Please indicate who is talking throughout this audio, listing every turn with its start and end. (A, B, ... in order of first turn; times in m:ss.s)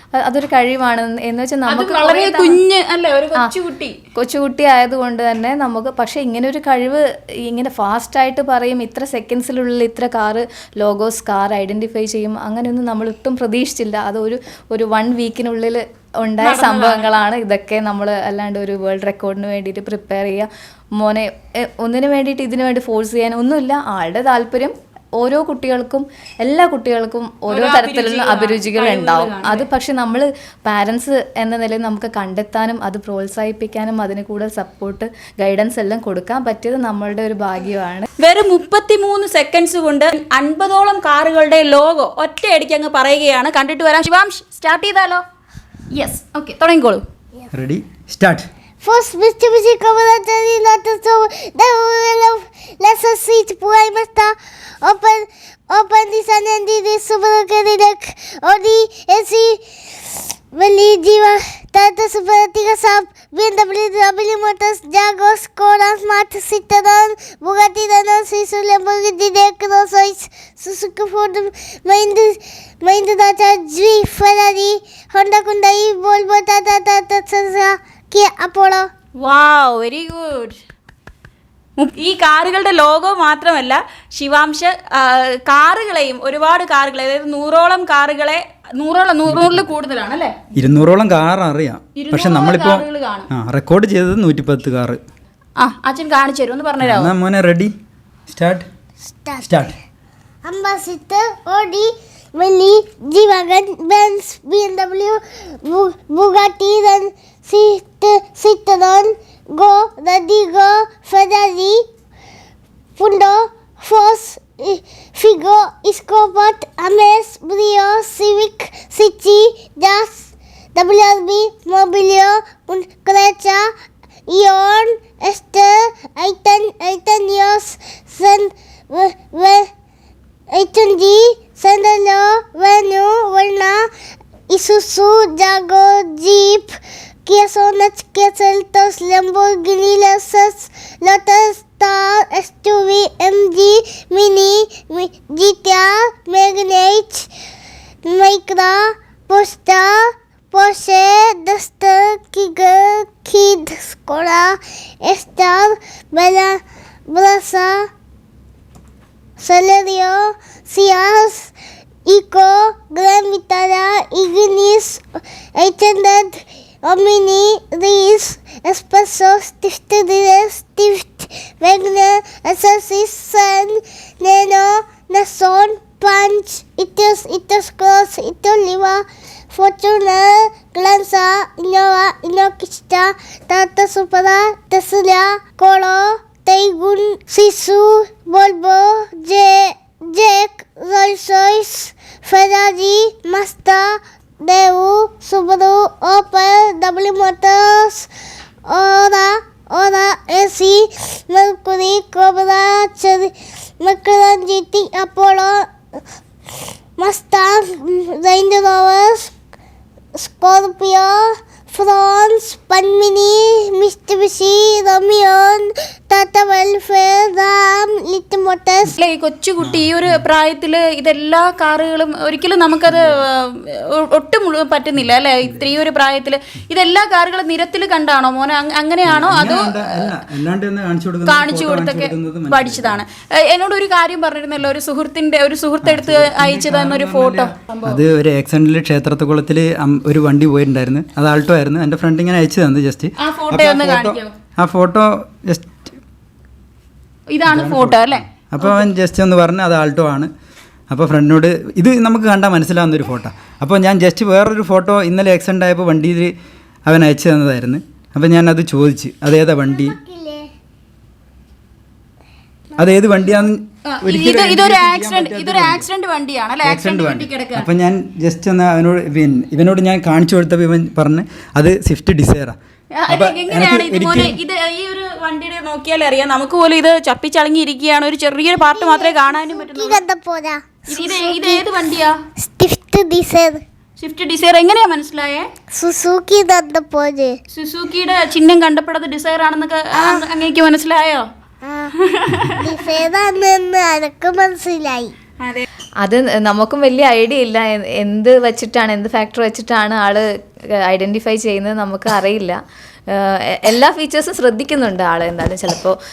0:00.1-0:02.6 A
0:01.7-0:04.0 B
0:04.1-0:38.1 A
0:16.4-0:17.1 B
0:27.5-0:29.6 B
0:38.2-0:45.2 B
0:45.9-0:47.0 B
0:47.5-0:48.5 C
0:48.8-0:59.6 D
1:00.5-1:18.9 D
1:19.2-1:20.6 B
1:21.8-1:30.4 B
1:29.2-1:29.6 C
1:30.6-1:35.0 C
1:31.9-1:33.3 B
1:35.6-1:37.1 B
1:36.8-1:37.7 C
1:38.3-1:38.6 C
1:39.1-1:39.5 D
1:39.4-1:39.8 C
1:40.4-1:51.8 D
1:53.0-2:03.6 D
2:04.3-2:09.7 D
2:10.5-2:13.8 D
2:14.5-2:27.3 D
2:28.1-2:30.0 D
2:30.5-2:36.6 D
2:37.1-2:37.8 D
2:39.4-2:41.5 D
2:42.1-3:18.1 D
3:18.7-3:25.7 D
3:27.0-3:29.3 D
3:30.2-3:39.0 D
3:38.9-3:50.1 B
3:39.6-3:40.2 C
3:42.9-3:43.2 C
3:49.0-3:53.0 C
3:51.2-3:58.0 B
3:55.8-4:05.9 C
4:03.2-4:04.3 B
4:07.3-4:08.8 B
4:07.4-4:10.3 C
4:10.9-4:16.3 C
4:16.8-4:20.0 C
4:19.6-4:20.5 D
4:22.8-4:25.8 C
4:23.9-4:27.7 B
4:26.6-4:32.6 C
4:32.9-4:40.0 B
4:33.1-4:34.4 C
4:38.6-4:41.7 D
4:40.9-4:42.1 B
4:42.4-4:43.6 D
4:44.0-4:45.5 B
4:45.8-4:47.4 D
4:47.5-4:51.2 B
4:49.9-4:50.2 D
4:51.6-4:51.9 D
4:52.0-4:52.8 B
4:52.6-4:55.1 D
4:55.4-4:55.6 B
4:56.0-5:00.2 A
5:00.8-5:02.6 A
5:03.1-5:06.0 A